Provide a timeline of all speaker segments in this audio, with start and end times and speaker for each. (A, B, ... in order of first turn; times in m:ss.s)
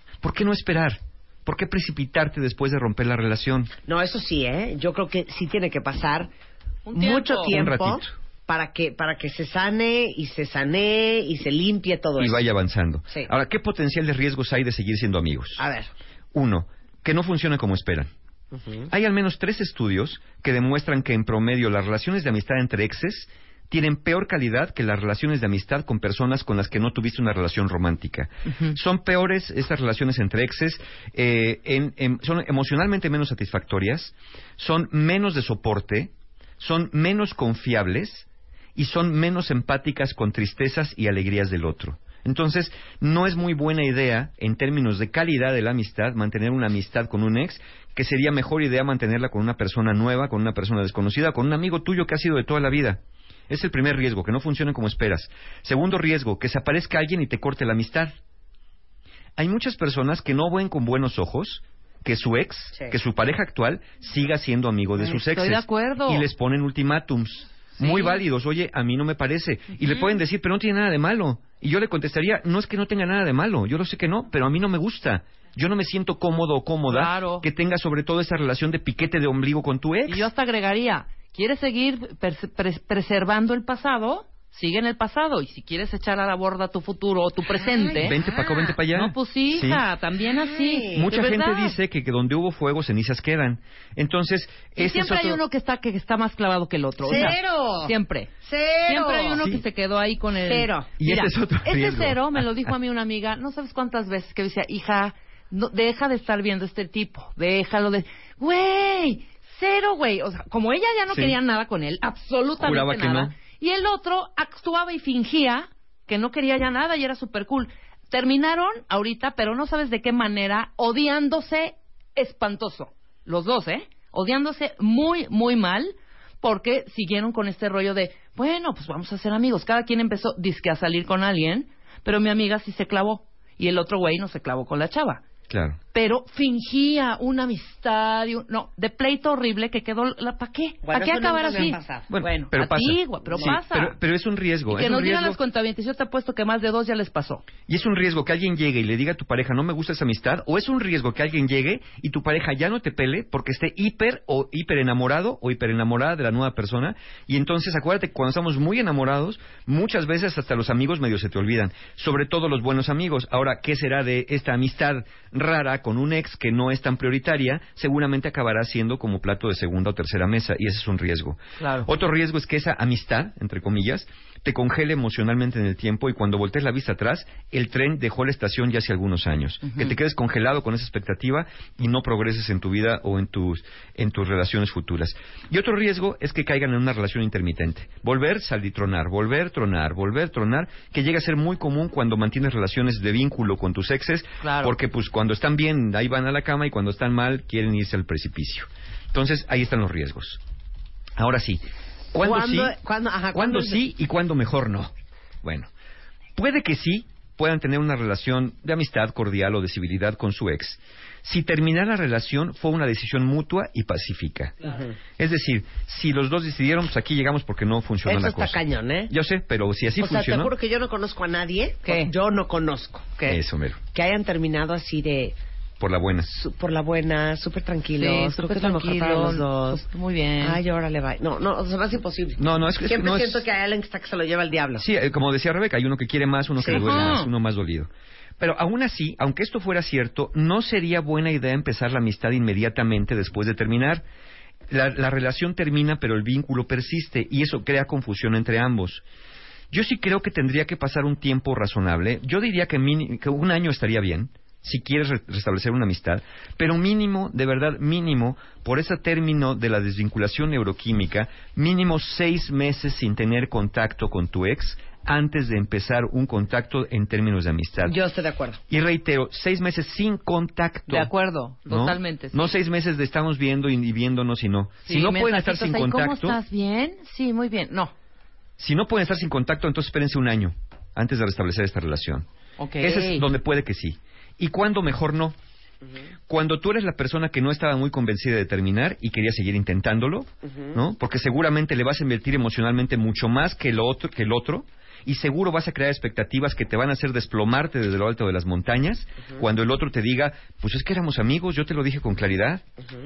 0:00.2-0:03.7 A
0:03.9-0:06.3 B
0:06.9-0:07.5 C
0:06.9-0:12.4 B
0:07.5-0:08.1 A
0:12.2-0:15.6 A
0:15.6-0:15.9 B
0:16.3-0:18.1 A
0:18.5-0:18.9 B
0:18.9-0:58.1 A
0:28.5-0:28.8 C
0:59.4-1:20.3 A
1:05.0-1:06.3 C
1:07.8-1:08.2 C
1:09.8-1:10.1 C
1:16.9-1:17.5 C
1:20.1-1:28.2 C
1:27.6-1:28.8 B
1:28.0-1:29.8 A
1:28.9-1:31.8 C
1:30.4-1:31.0 B
1:30.9-1:35.4 A
1:34.8-1:38.3 C
1:37.0-1:39.5 B
1:38.9-2:15.2 C
1:40.5-1:40.9 B
1:41.0-1:42.7 A
1:51.1-1:51.4 A
1:52.6-1:53.4 A
2:15.5-2:15.8 A
2:15.9-2:24.0 C
2:20.8-2:22.1 B
2:22.1-2:25.4 A
2:24.7-2:27.4 C
2:27.7-3:20.4 A
2:51.6-2:51.9 C
2:59.6-3:00.0 C
3:14.4-3:14.7 C
3:21.2-3:22.8 A
3:22.2-3:23.8 B
3:23.3-3:24.9 A
3:25.4-3:25.7 A
3:26.4-3:34.6 A
3:34.6-3:34.9 B
3:35.2-3:40.5 A
3:38.0-3:39.1 B
3:40.0-3:43.2 B
3:41.9-3:42.1 C
3:43.3-3:43.8 A
3:43.9-3:45.4 B
3:45.8-3:46.3 A
3:46.2-3:49.8 B
3:48.0-3:50.6 C
3:50.4-3:54.8 B
3:52.4-3:53.5 A
3:54.8-4:04.1 A
3:56.6-3:56.8 B
3:56.7-3:57.3 C
4:04.7-4:09.0 A
4:09.7-4:28.0 A
4:27.8-4:28.6 B
4:28.7-4:31.1 A
4:30.9-4:32.4 C
4:31.7-4:36.4 A
4:34.9-4:37.9 C
4:38.6-4:42.3 A
4:42.6-4:43.2 C
4:42.8-4:45.4 A
4:46.3-5:02.6 A
4:50.5-4:50.8 B